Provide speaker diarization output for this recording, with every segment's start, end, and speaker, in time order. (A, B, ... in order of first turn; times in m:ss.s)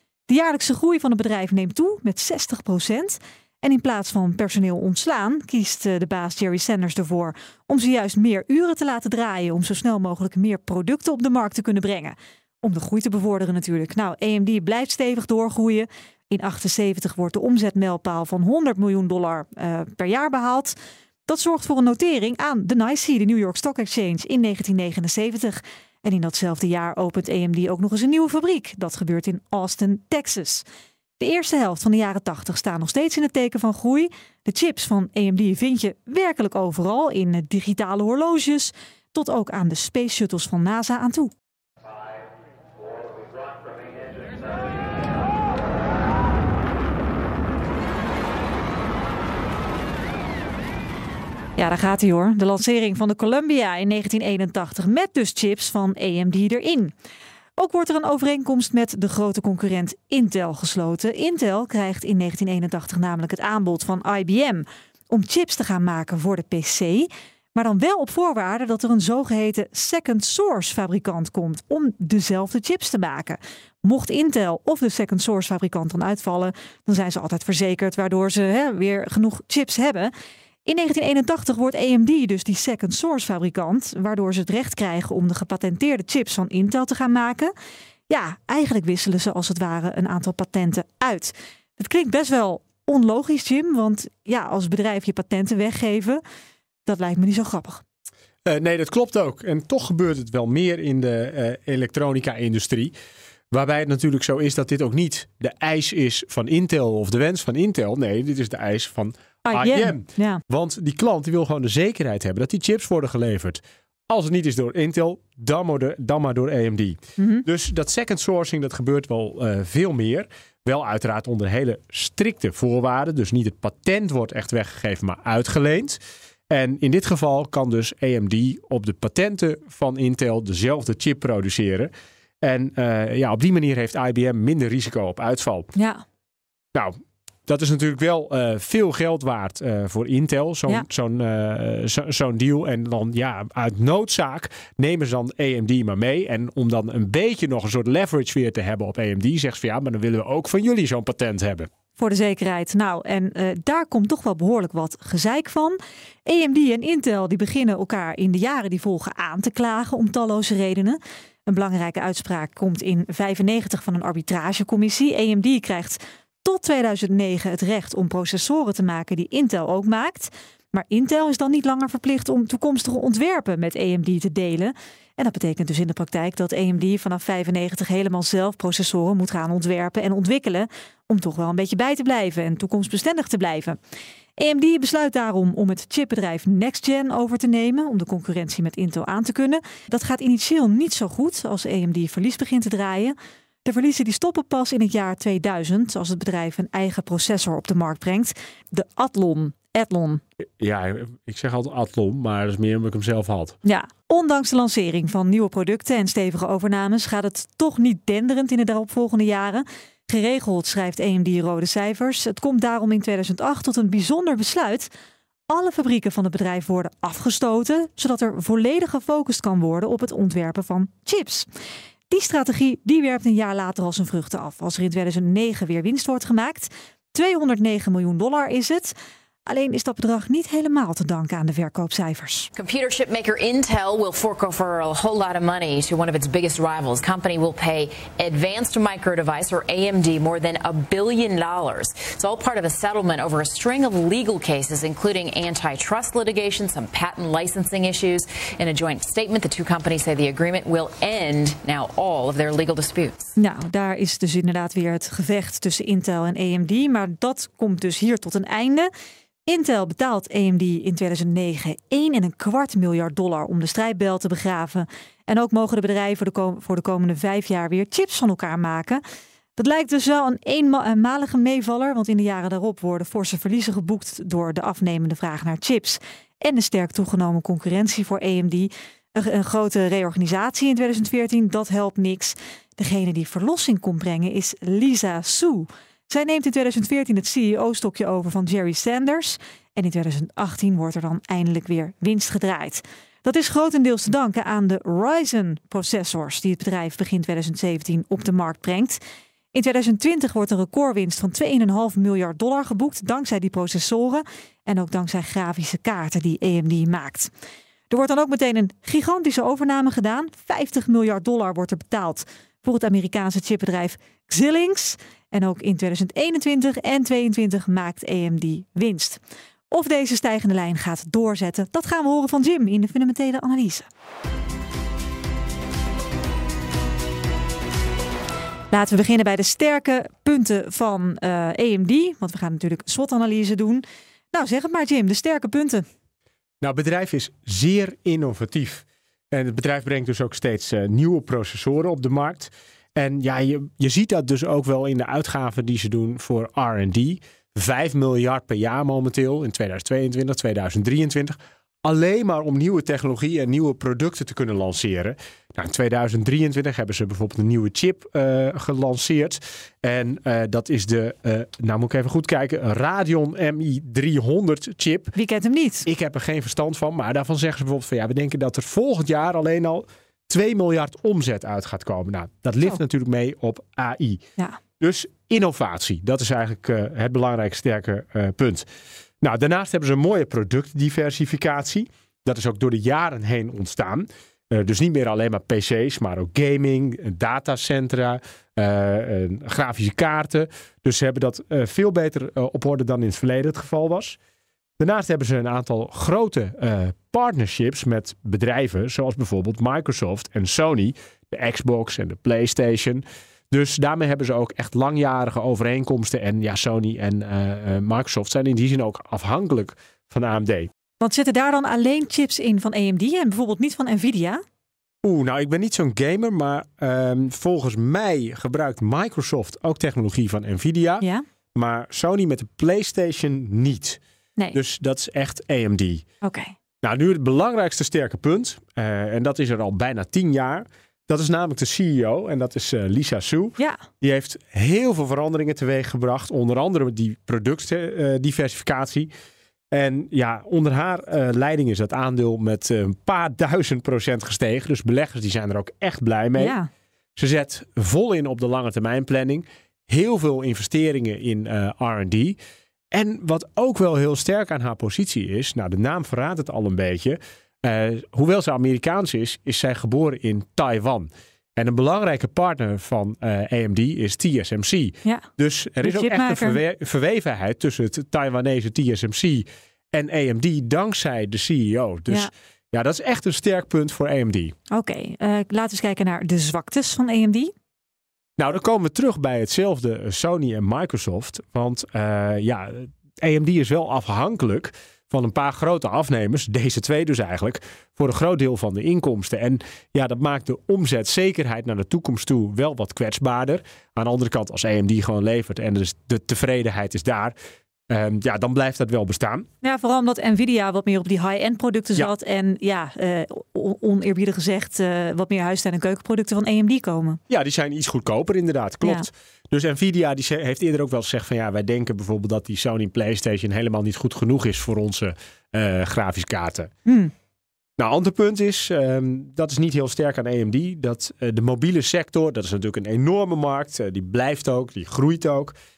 0:00.3-0:20.8 A
0:21.3-0:30.6 A
0:31.2-0:41.3 A
0:51.6-0:56.9 A
0:57.6-1:20.1 A
1:20.6-1:27.5 A
1:28.1-1:36.2 A
1:36.9-1:37.8 A
1:38.4-1:42.9 B
1:43.5-2:15.7 B
1:49.5-1:50.4 A
1:57.2-1:57.4 A
2:15.8-2:16.0 A
2:17.5-2:31.7 B
2:32.0-3:03.8 A
3:04.4-3:20.2 A
3:20.6-3:23.6 B
3:23.6-3:34.9 A
3:35.5-3:41.5 A
3:42.1-3:48.9 A
3:49.5-3:52.5 A
3:52.6-4:13.3 C
4:13.4-4:18.9 A
4:19.5-4:29.0 A
4:29.6-4:59.0 A
4:59.5-5:07.3 A
5:07.9-5:19.2 A
5:19.7-5:23.9 A
5:28.7-5:35.9 A
5:36.6-6:05.2 B
6:05.2-6:05.9 A
6:05.8-6:14.2 B
6:14.8-6:18.7 B
6:19.2-6:34.2 B
6:34.8-6:50.7 B
6:51.0-6:54.4 A
6:55.0-7:04.0 B
7:04.5-7:06.0 B
7:06.2-7:06.5 A
7:06.8-7:19.1 B
7:19.7-7:26.6 B
7:26.4-7:26.7 A
7:27.2-7:32.4 B
7:32.9-7:54.5 B
7:45.8-7:46.6 A
7:54.7-7:57.5 A
7:58.4-8:17.4 B
8:17.9-8:19.5 B
8:19.6-8:27.2 A
8:27.3-8:36.7 B
8:28.8-8:29.1 A
8:36.9-8:37.1 A
8:37.8-8:45.6 B